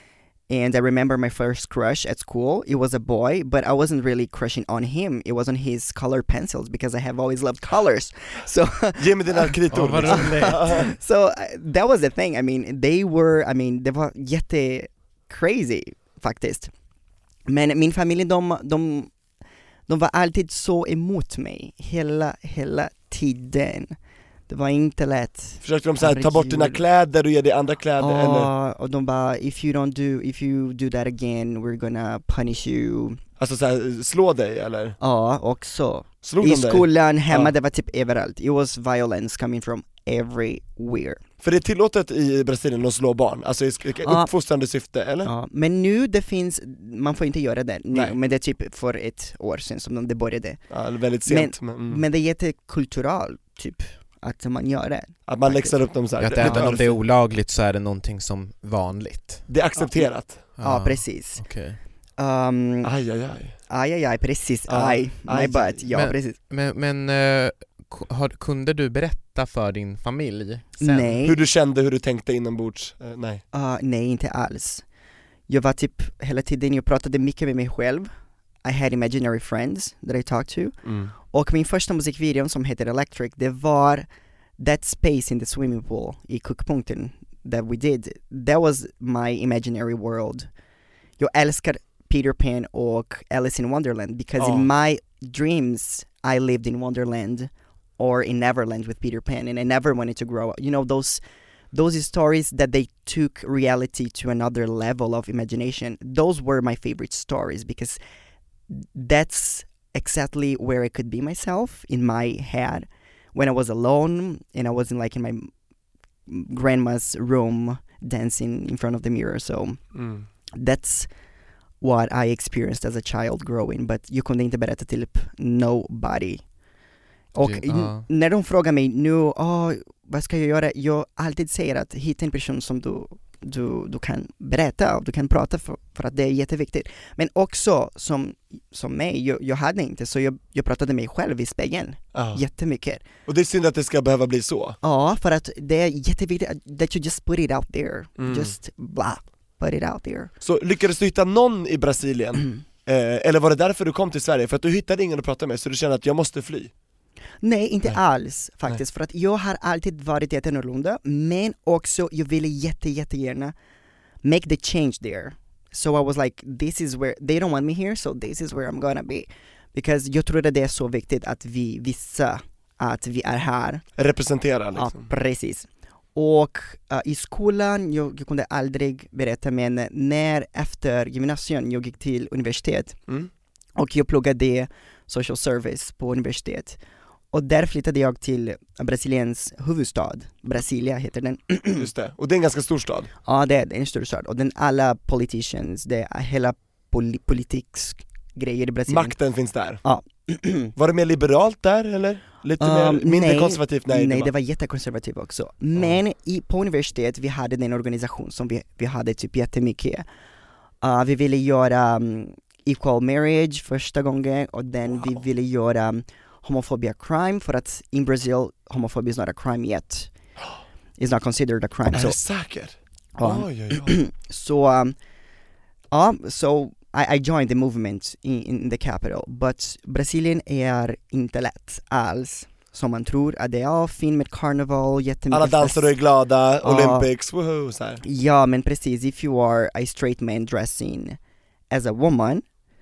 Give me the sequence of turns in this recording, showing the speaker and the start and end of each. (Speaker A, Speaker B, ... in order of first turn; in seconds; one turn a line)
Speaker A: 0.5-16.7
Speaker B: 9.0-10.9
Speaker C: 9.7-10.8
Speaker A: 17.5-19.1
Speaker A: 19.9-24.0
Speaker A: 24.5-26.8
Speaker B: 25.6-28.5
Speaker A: 28.0-33.2
Speaker B: 33.4-35.0
Speaker A: 35.0-41.2
Speaker B: 36.2-37.5
Speaker B: 41.4-45.3
Speaker A: 44.0-44.3
Speaker A: 45.2-50.6
Speaker B: 50.7-52.0
Speaker A: 51.2-55.8
Speaker B: 55.3-57.0
Speaker C: 56.2-59.5
Speaker A: 56.4-56.8
Speaker B: 59.5-60.4
Speaker C: 60.6-61.8
Speaker A: 60.6-61.4
Speaker A: 62.2-62.9
Speaker B: 62.8-63.5
Speaker A: 63.7-66.4
Speaker B: 64.7-65.8
Speaker C: 65.9-71.2
Speaker A: 70.8-71.4
Speaker B: 71.2-73.4
Speaker A: 73.5-74.8
Speaker A: 75.5-78.1
Speaker A: 78.6-80.8
Speaker B: 80.8-81.1
Speaker A: 81.3-84.0
Speaker A: 84.6-90.5
Speaker A: 91.2-101.2
Speaker B: 94.4-94.7
Speaker A: 101.7-108.0
Speaker A: 108.7-115.5
Speaker A: 116.3-119.8
Speaker B: 119.9-120.3
Speaker A: 120.5-121.1
Speaker A: 121.8-126.4
Speaker A: 127.3-143.1
Speaker C: 127.4-128.1
Speaker B: 142.1-142.4
Speaker B: 143.2-144.8
Speaker A: 144.8-150.3
Speaker B: 148.2-148.5
Speaker B: 150.4-156.7
Speaker A: 157.4-163.5
Speaker A: 164.2-173.8
Speaker B: 174.0-175.1
Speaker A: 174.8-183.0
Speaker A: 183.8-186.8
Speaker A: 187.3-191.9
Speaker B: 191.8-193.1
Speaker A: 193.2-199.2
Speaker B: 198.9-199.8
Speaker A: 199.8-200.7
Speaker B: 200.8-204.3
Speaker A: 202.6-210.1
Speaker A: 210.8-220.1
Speaker A: 221.0-222.2
Speaker B: 221.9-223.9
Speaker A: 223.2-224.9
Speaker A: 225.9-235.9
Speaker B: 235.3-238.0
Speaker A: 236.6-237.1
Speaker A: 238.0-241.2
Speaker A: 241.7-242.4